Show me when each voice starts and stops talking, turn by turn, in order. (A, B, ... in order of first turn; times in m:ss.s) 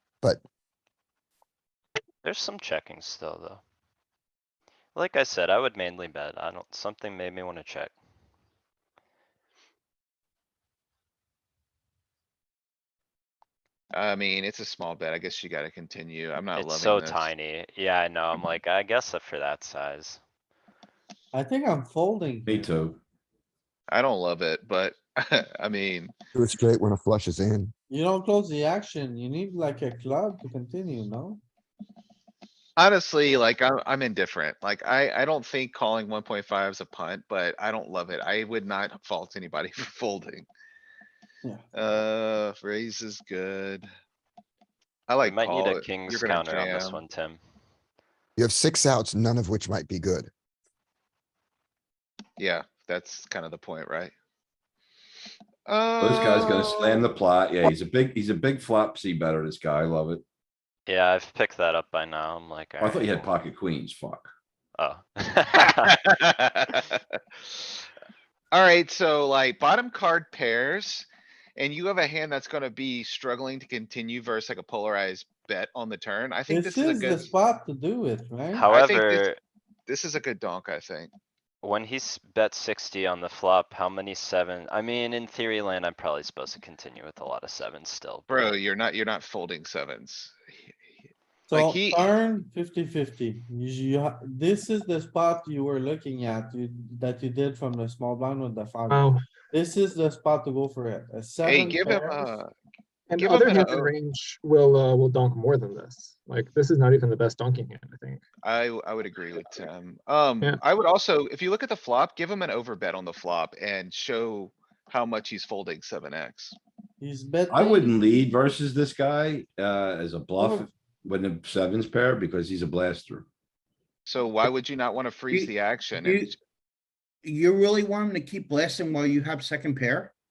0:02.2-0:03.6 A
0:05.0-0:07.9 A
0:13.9-0:17.3 B
0:16.6-0:20.2 A
0:21.3-0:22.8 C
0:22.5-0:23.0 D
0:23.9-0:26.1 B
0:26.3-0:27.7 E
0:27.9-0:31.4 C
0:32.8-0:40.5 B
0:41.8-0:43.9 B
0:45.1-0:47.0 B
0:45.2-0:47.4 A
0:48.4-0:50.3 E
0:52.4-0:54.1 B
0:55.7-0:57.1 B
0:56.0-1:00.2 D
1:00.9-1:03.3 A
1:02.8-1:04.3 D
1:04.8-1:05.9 A
1:05.6-1:07.0 B
1:08.5-1:17.3 B
1:16.5-1:18.7 C
1:18.5-1:19.4 A
1:18.7-1:19.3 B
1:19.9-1:21.1 B
1:21.6-1:28.5 A
1:28.3-1:30.4 B
1:31.5-1:42.4 C
1:31.5-1:32.1 B
1:38.9-1:39.2 F
1:41.4-1:42.5 B
1:43.1-1:48.2 F
1:43.2-1:43.9 B
1:48.4-1:56.6 B
1:57.0-1:58.0 C
1:57.5-2:03.3 D
2:00.4-2:00.7 C
2:04.0-2:06.4 B
2:05.3-2:06.3 G
2:07.2-2:10.1 G